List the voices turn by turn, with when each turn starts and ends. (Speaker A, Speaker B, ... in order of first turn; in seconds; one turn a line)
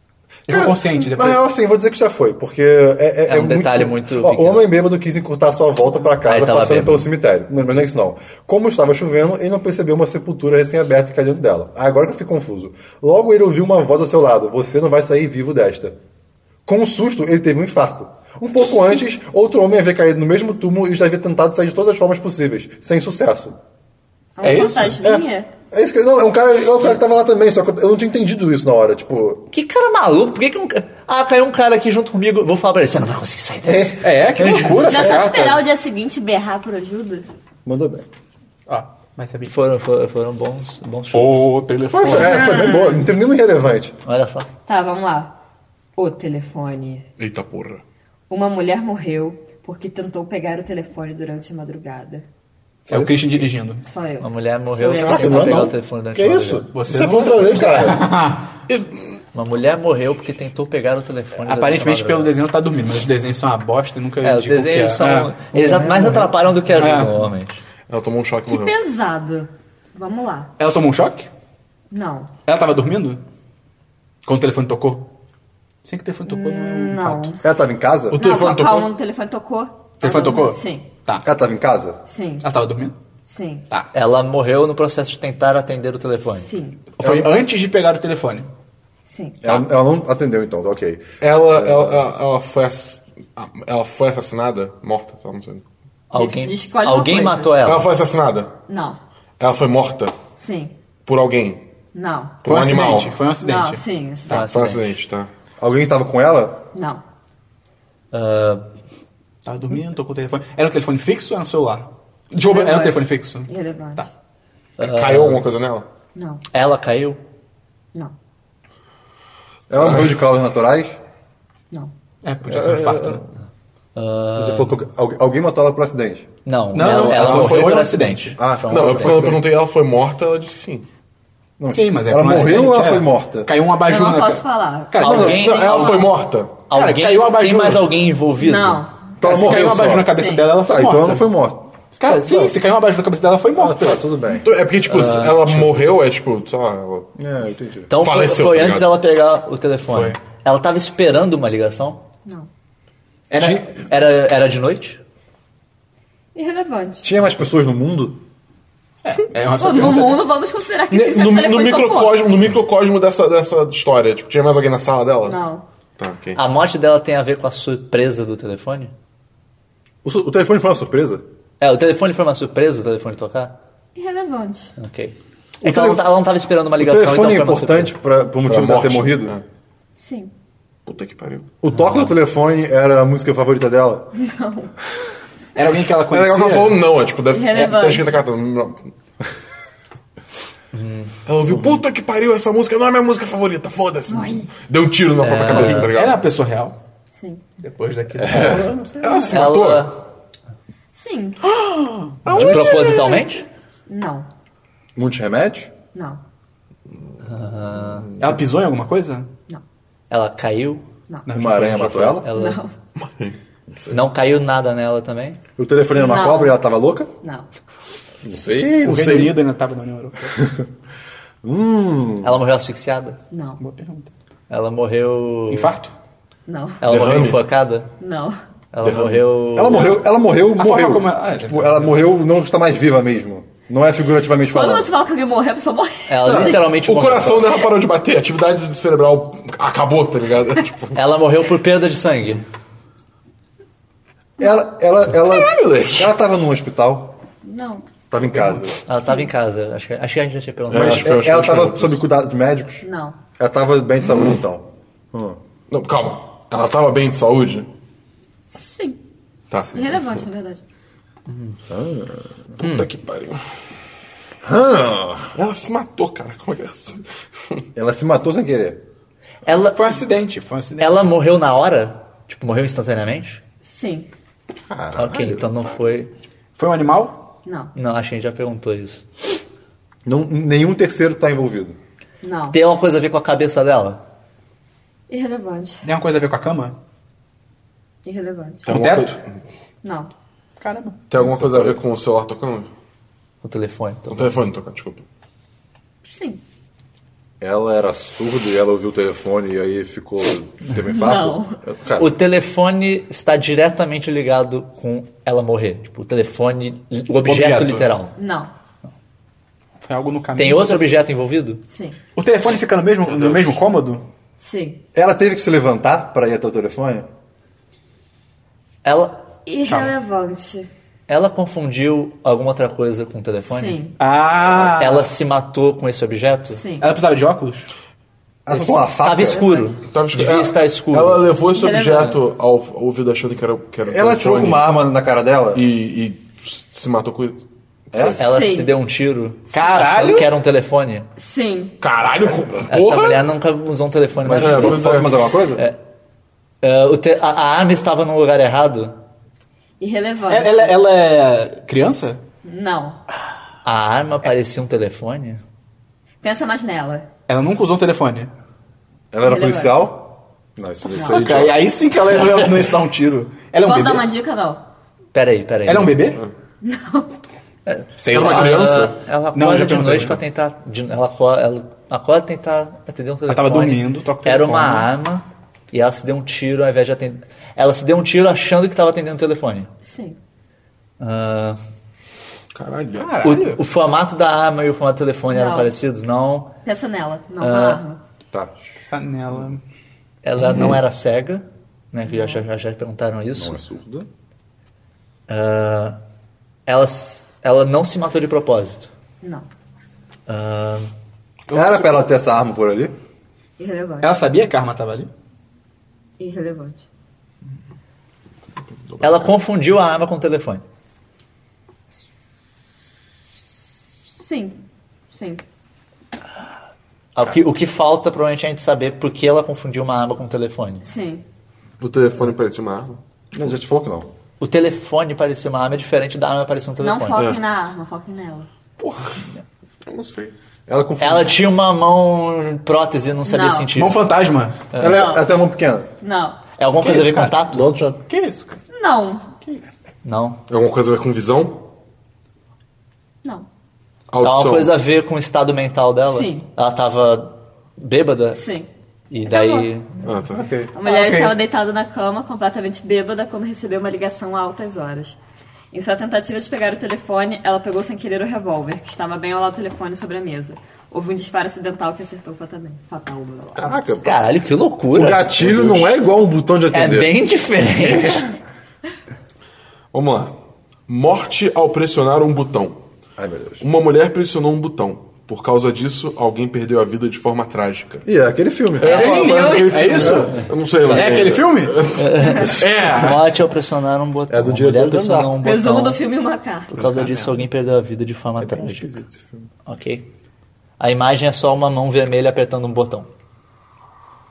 Speaker A: 0.5-1.4
Speaker B: 0.5-16.0
Speaker C: 3.3-4.7
Speaker C: 6.2-7.1
Speaker B: 16.7-23.6
Speaker D: 24.4-25.5
Speaker A: 24.4-25.2
Speaker B: 25.7-29.5
Speaker C: 29.5-34.5
Speaker B: 33.6-35.1
Speaker A: 34.0-35.6
Speaker D: 34.8-37.3
Speaker B: 37.6-38.1
Speaker A: 38.7-39.6
Speaker C: 39.5-41.5
Speaker A: 41.1-42.6
Speaker B: 41.9-44.0
Speaker D: 42.1-43.1
Speaker C: 44.0-44.5
Speaker D: 44.7-45.3
Speaker D: 46.0-47.1
Speaker E: 47.2-47.8
Speaker D: 48.3-52.3
Speaker B: 52.9-53.3
Speaker A: 52.9-53.8
Speaker D: 53.9-55.7
Speaker C: 54.2-56.7
Speaker B: 55.0-58.1
Speaker A: 56.7-58.5
Speaker E: 58.7-59.2
Speaker C: 59.3-62.3
Speaker A: 61.4-65.5
Speaker C: 64.2-67.6
Speaker B: 65.5-66.3
Speaker A: 66.7-67.3
Speaker E: 67.9-68.7
Speaker D: 68.5-70.5
Speaker A: 70.6-71.3
Speaker D: 71.9-72.3
Speaker A: 72.5-73.2
Speaker A: 74.2-75.1
Speaker A: 75.8-77.3
Speaker D: 76.3-77.4
Speaker B: 77.4-78.2
Speaker E: 78.1-78.9
Speaker D: 78.2-80.9
Speaker A: 80.0-81.3
Speaker B: 81.2-82.0
Speaker D: 82.1-82.5
Speaker A: 82.4-83.0
Speaker D: 83.3-83.7
Speaker C: 83.9-86.5
Speaker D: 86.2-86.8
Speaker A: 87.0-88.5
Speaker B: 87.0-87.3
Speaker D: 89.1-89.4
Speaker B: 89.4-92.1
Speaker E: 91.2-95.6
Speaker C: 96.1-97.9
Speaker D: 96.1-97.5
Speaker E: 97.6-98.5
Speaker D: 98.7-99.0
Speaker E: 99.4-100.2
Speaker D: 100.4-100.7
Speaker E: 101.1-101.7
Speaker D: 101.9-102.4
Speaker E: 102.4-103.2
Speaker A: 102.4-103.8
Speaker D: 103.4-104.5
Speaker C: 104.3-105.0
Speaker E: 104.3-105.3
Speaker B: 105.6-106.6
Speaker D: 106.7-107.0
Speaker C: 108.1-108.7
Speaker A: 109.4-114.1
Speaker D: 112.4-114.1
Speaker C: 114.8-115.5
Speaker E: 114.8-115.9
Speaker D: 116.2-116.4
Speaker C: 116.5-117.2
Speaker B: 119.7-121.0
Speaker E: 119.8-120.1
Speaker A: 122.2-123.2
Speaker B: 122.5-123.2
Speaker C: 124.0-124.8
Speaker B: 124.4-126.3
Speaker C: 126.5-129.4
Speaker A: 126.7-128.4
Speaker E: 126.8-127.8
Speaker B: 127.1-127.6
Speaker B: 128.4-129.4
Speaker E: 128.7-130.9
Speaker B: 131.6-133.5
Speaker A: 131.7-135.4
Speaker D: 133.8-136.1
Speaker C: 135.0-136.1
Speaker E: 135.2-136.6
Speaker C: 136.7-138.9
Speaker A: 136.7-137.9
Speaker D: 138.4-138.9
Speaker B: 139.2-142.6
Speaker A: 139.2-141.3
Speaker D: 140.1-140.5
Speaker A: 141.9-144.0
Speaker B: 143.6-144.5
Speaker E: 144.3-147.1
Speaker C: 144.9-145.8
Speaker B: 147.2-147.9
Speaker C: 147.9-152.0
Speaker E: 148.0-149.0
Speaker A: 149.9-150.2
Speaker A: 153.3-153.7
Speaker C: 153.4-155.0
Speaker D: 156.3-157.1
Speaker B: 157.0-158.2
Speaker A: 159.0-160.2
Speaker D: 159.6-162.3
Speaker E: 160.9-165.4
Speaker D: 165.2-165.6
Speaker E: 166.0-166.4
Speaker C: 166.4-168.9
Speaker B: 170.0-171.2
Speaker C: 171.6-173.6
Speaker D: 173.9-174.7
Speaker C: 174.8-177.9
Speaker B: 175.6-176.1
Speaker B: 176.8-179.4
Speaker E: 178.5-179.4
Speaker D: 180.0-180.3
Speaker E: 180.9-181.5
Speaker B: 181.6-184.1
Speaker C: 181.7-182.2
Speaker D: 184.2-184.8
Speaker A: 185.6-186.8
Speaker E: 186.1-188.9
Speaker D: 187.3-188.2
Speaker C: 190.7-191.7
Speaker E: 191.3-196.2
Speaker D: 194.1-194.5
Speaker C: 195.2-195.9
Speaker A: 195.5-196.8
Speaker D: 197.1-197.4
Speaker A: 197.6-199.5
Speaker B: 198.2-198.8
Speaker E: 198.3-199.9
Speaker C: 199.3-200.0
Speaker D: 200.9-201.4
Speaker A: 201.5-202.2
Speaker E: 202.2-203.4
Speaker C: 202.3-203.5
Speaker B: 202.3-202.9
Speaker D: 203.9-204.3
Speaker B: 205.0-205.7
Speaker D: 205.9-206.2
Speaker C: 207.2-208.1
Speaker A: 208.2-209.3
Speaker C: 210.1-212.6
Speaker A: 211.3-211.9
Speaker B: 211.3-212.3
Speaker D: 212.3-212.7
Speaker E: 213.0-213.4
Speaker C: 213.9-215.4
Speaker B: 215.6-217.1
Speaker D: 215.9-216.6
Speaker D: 217.2-217.5
Speaker B: 218.2-219.3
Speaker E: 218.3-219.2
Speaker A: 218.8-220.4
Speaker B: 220.3-220.7
Speaker B: 221.4-222.4
Speaker C: 222.2-223.2
Speaker D: 223.3-223.6
Speaker A: 223.6-224.1
Speaker C: 224.5-225.7
Speaker A: 225.5-225.9
Speaker D: 226.5-226.8
Speaker C: 226.8-227.9
Speaker E: 226.8-227.4
Speaker D: 228.0-228.4
Speaker C: 228.7-230.0
Speaker E: 228.8-229.2
Speaker B: 229.5-234.9
Speaker A: 230.6-232.1
Speaker D: 234.5-236.6
Speaker C: 236.1-237.5
Speaker B: 236.3-236.6
Speaker E: 236.7-241.0
Speaker C: 240.9-242.4
Speaker B: 244.4-247.2
Speaker E: 245.1-246.1
Speaker D: 247.4-247.8
Speaker B: 248.1-248.8
Speaker C: 248.9-251.6
Speaker E: 250.7-252.0
Speaker B: 250.7-252.8
Speaker D: 252.8-253.2
Speaker B: 253.4-255.4
Speaker E: 254.1-254.4
Speaker E: 255.7-257.7
Speaker D: 258.5-259.0
Speaker E: 259.5-260.2
Speaker D: 259.7-260.6
Speaker C: 261.3-261.6
Speaker B: 261.7-262.5
Speaker E: 262.6-263.4
Speaker C: 262.6-262.9
Speaker B: 264.4-265.4
Speaker E: 265.4-267.6
Speaker B: 267.8-268.8
Speaker C: 269.4-270.0
Speaker A: 269.6-271.1
Speaker C: 270.8-273.4
Speaker D: 273.6-274.1
Speaker B: 274.7-275.5
Speaker C: 274.9-276.1
Speaker A: 276.6-277.2
Speaker D: 277.4-277.7
Speaker C: 277.8-279.0
Speaker B: 280.1-281.8
Speaker D: 282.2-282.6
Speaker C: 282.5-284.0
Speaker D: 285.1-285.8
Speaker A: 285.8-286.8
Speaker D: 288.0-288.7
Speaker E: 288.6-289.4
Speaker A: 288.7-289.2
Speaker D: 289.8-290.1
Speaker A: 290.6-291.0
Speaker E: 291.1-292.7
Speaker B: 291.2-291.8
Speaker C: 293.4-294.4
Speaker E: 294.1-295.1
Speaker D: 296.1-296.4
Speaker B: 297.4-302.1
Speaker D: 300.8-301.6
Speaker C: 302.0-308.2
Speaker A: 307.2-307.9
Speaker D: 308.2-308.5
Speaker A: 309.8-310.9
Speaker C: 310.4-311.6
Speaker D: 311.7-312.0
Speaker A: 312.2-314.1
Speaker E: 313.1-313.6
Speaker D: 314.4-314.8
Speaker B: 314.9-317.1
Speaker C: 318.8-319.2
Speaker D: 319.5-320.7
Speaker C: 321.1-323.8
Speaker D: 323.4-324.0
Speaker A: 324.0-325.1
Speaker C: 324.8-326.6
Speaker D: 326.5-326.9
Speaker A: 326.8-327.7
Speaker B: 328.5-329.4
Speaker C: 328.5-331.4
Speaker D: 329.2-329.8
Speaker E: 329.9-334.7
Speaker D: 331.5-332.2
Speaker B: 333.9-335.6
Speaker E: 335.5-338.2
Speaker B: 337.9-338.2
Speaker C: 338.2-341.1
Speaker D: 338.2-338.7
Speaker A: 339.5-340.3
Speaker D: 341.2-341.8
Speaker E: 341.8-343.3
Speaker C: 342.7-344.9
Speaker B: 344.2-345.6
Speaker E: 344.3-345.1
Speaker C: 346.6-348.9
Speaker D: 349.8-350.8
Speaker A: 350.3-352.2
Speaker D: 352.4-353.0
Speaker C: 353.6-355.4
Speaker D: 356.2-357.1
Speaker A: 357.3-358.3
Speaker B: 359.1-361.6
Speaker D: 359.2-359.9
Speaker D: 360.9-361.3
Speaker A: 360.9-364.1
Speaker D: 363.6-364.6
Speaker C: 365.1-366.2
Speaker A: 365.6-366.2
Speaker D: 366.6-367.1
Speaker C: 367.7-379.7
Speaker A: 368.0-368.8
Speaker E: 368.1-369.0
Speaker A: 369.3-370.2
Speaker A: 373.3-374.9
Speaker D: 379.8-380.2
Speaker C: 381.0-381.6
Speaker E: 382.5-383.2
Speaker A: 383.0-383.6
Speaker C: 383.2-386.5
Speaker D: 385.3-385.7
Speaker D: 386.6-388.0
Speaker C: 387.4-387.8
Speaker B: 388.3-388.8
Speaker A: 388.8-389.6
Speaker C: 390.2-393.6
Speaker E: 390.5-390.8
Speaker D: 392.1-392.4
Speaker B: 393.4-394.1
Speaker C: 395.3-396.0
Speaker C: 396.7-398.9
Speaker C: 400.3-400.9
Speaker E: 401.5-401.9
Speaker B: 401.5-402.9
Speaker D: 403.6-404.1
Speaker A: 404.0-405.1
Speaker D: 406.2-406.9
Speaker C: 409.0-410.6
Speaker D: 414.2-414.6
Speaker D: 415.1-415.4
Speaker C: 417.1-420.9
Speaker D: 420.8-421.2
Speaker E: 421.8-423.0
Speaker B: 423.3-424.1
Speaker C: 424.4-427.2
Speaker D: 426.8-428.5
Speaker E: 428.8-429.2
Speaker E: 429.9-430.3
Speaker B: 430.7-431.4
Speaker C: 431.0-434.1
Speaker D: 433.2-433.7
Speaker A: 433.8-434.6
Speaker C: 434.7-435.1
Speaker B: 434.8-435.9
Speaker D: 434.8-435.3
Speaker D: 436.0-436.4
Speaker C: 436.5-437.7
Speaker A: 436.8-437.4
Speaker B: 437.5-438.0
Speaker A: 438.1-438.6
Speaker D: 438.7-439.3
Speaker C: 440.0-440.4
Speaker E: 440.5-441.6
Speaker E: 444.1-444.8
Speaker C: 444.2-448.4
Speaker D: 446.1-446.5
Speaker D: 448.4-448.7
Speaker C: 449.1-450.1
Speaker D: 449.3-449.7
Speaker E: 450.0-450.5
Speaker B: 450.3-450.7
Speaker D: 450.7-455.2
Speaker A: 450.8-451.4
Speaker D: 455.7-463.9
Speaker B: 463.6-464.2
Speaker C: 464.0-465.4
Speaker B: 464.9-467.2
Speaker E: 465.4-465.9
Speaker C: 466.7-468.3
Speaker E: 469.9-472.8
Speaker B: 473.2-473.6
Speaker E: 473.6-478.1
Speaker B: 478.1-479.1
Speaker E: 478.8-483.3
Speaker D: 478.8-480.2
Speaker A: 478.9-481.8
Speaker C: 480.3-481.3
Speaker C: 481.9-486.0
Speaker B: 484.3-485.4
Speaker D: 485.4-486.8
Speaker C: 486.7-488.9
Speaker B: 488.4-489.5
Speaker C: 489.7-490.1
Speaker C: 490.8-493.1